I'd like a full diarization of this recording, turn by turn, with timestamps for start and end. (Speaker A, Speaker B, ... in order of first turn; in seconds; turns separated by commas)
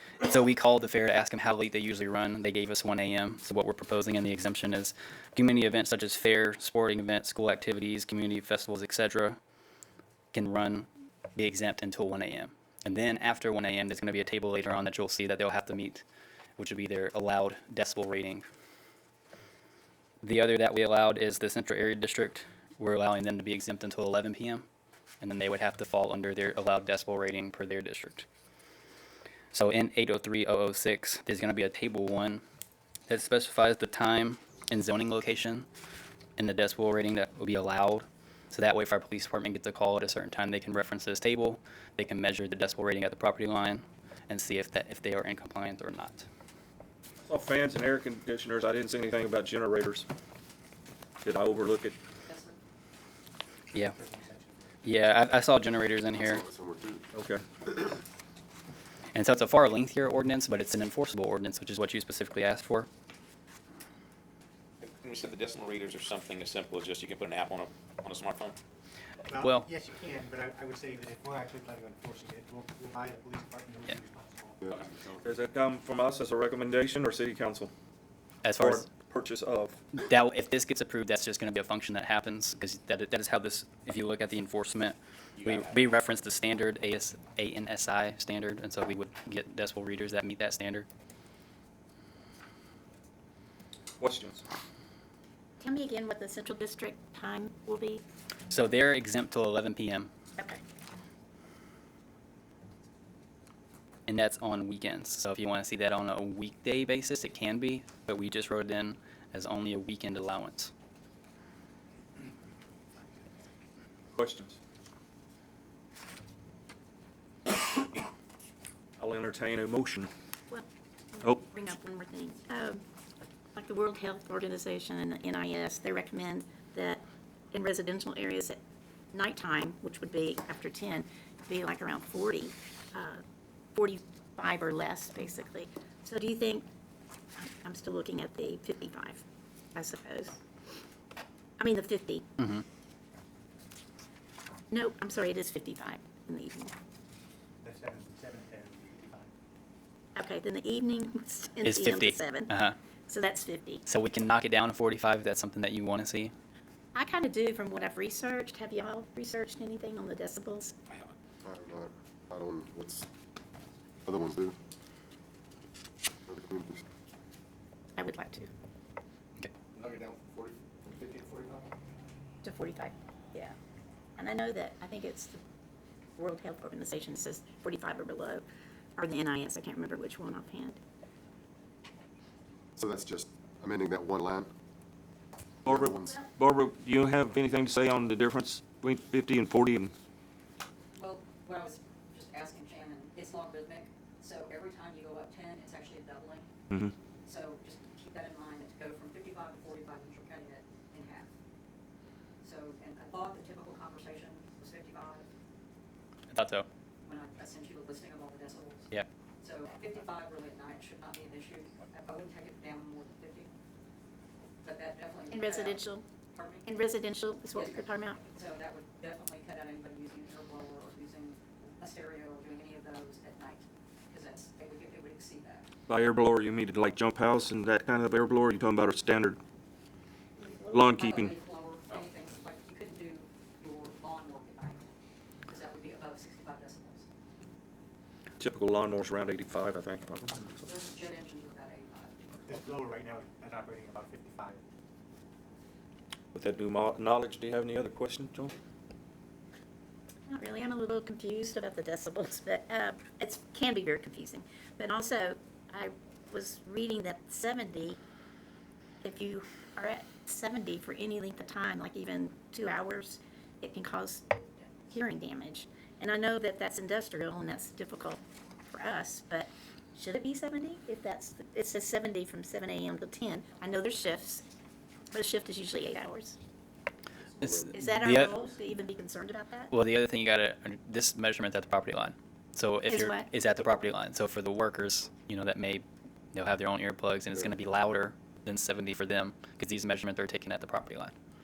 Speaker A: 0.2-9.4, Speaker A: 10.3-16.0, Speaker A: 16.6-18.4, Speaker A: 20.2-24.6, Speaker A: 25.2-28.3, Speaker A: 29.5-32.4, Speaker A: 33.1-35.7, Speaker A: 36.4-46.3, Speaker B: 47.3-50.1, Speaker B: 51.2-52.0, Speaker C: 52.3-52.6, Speaker D: 53.8-54.5, Speaker A: 54.8-56.4, Speaker E: 56.1-57.1, Speaker B: 57.1-57.4, Speaker A: 59.1-62.9, Speaker F: 64.8-68.6, Speaker D: 69.3-74.6, Speaker A: 69.4-69.7, Speaker F: 74.7-75.2, Speaker B: 75.2-77.7, Speaker A: 78.4-78.9, Speaker B: 78.6-79.8, Speaker A: 80.0-90.9, Speaker F: 85.4-85.7, Speaker B: 94.0-94.4, Speaker G: 95.6-98.0, Speaker A: 98.5-100.1, Speaker A: 104.1-110.7, Speaker B: 114.2-114.6, Speaker B: 119.0-120.1, Speaker G: 121.2-122.8, Speaker G: 123.5-128.6, Speaker G: 129.1-133.2, Speaker G: 133.8-136.7, Speaker G: 137.3-139.2, Speaker G: 139.8-140.4, Speaker G: 141.6-142.2, Speaker A: 142.4-142.6, Speaker G: 144.7-146.7, Speaker D: 147.6-149.3, Speaker G: 150.2-152.6, Speaker A: 151.6-152.8, Speaker G: 153.1-153.8, Speaker A: 153.9-156.3, Speaker G: 156.9-160.8, Speaker E: 161.4-163.1, Speaker E: 164.0-164.6, Speaker E: 166.3-166.8, Speaker G: 167.9-168.5, Speaker E: 169.8-171.6, Speaker G: 172.4-173.6, Speaker G: 174.2-175.4, Speaker G: 176.2-178.4, Speaker G: 179.0-180.8, Speaker E: 182.8-184.5, Speaker B: 185.6-189.9, Speaker E: 185.7-186.2, Speaker C: 190.9-196.5, Speaker C: 197.2-201.3, Speaker C: 202.4-205.2, Speaker A: 206.3-206.7, Speaker C: 207.0-208.9, Speaker C: 209.4-213.5, Speaker C: 214.6-216.7, Speaker G: 215.3-216.0, Speaker G: 216.7-218.2, Speaker C: 217.5-225.7, Speaker B: 225.9-229.4, Speaker G: 230.5-230.8, Speaker B: 230.7-231.3, Speaker C: 230.8-234.8, Speaker C: 235.5-237.1, Speaker B: 238.4-240.5, Speaker C: 240.6-242.7, Speaker D: 242.5-244.6, Speaker B: 246.3-248.6, Speaker G: 250.3-258.0, Speaker G: 259.0-264.3, Speaker G: 264.9-274.4, Speaker G: 275.1-276.4, Speaker E: 277.4-277.8, Speaker A: 277.4-278.3, Speaker G: 277.7-279.7, Speaker A: 279.7-291.1, Speaker G: 282.9-283.3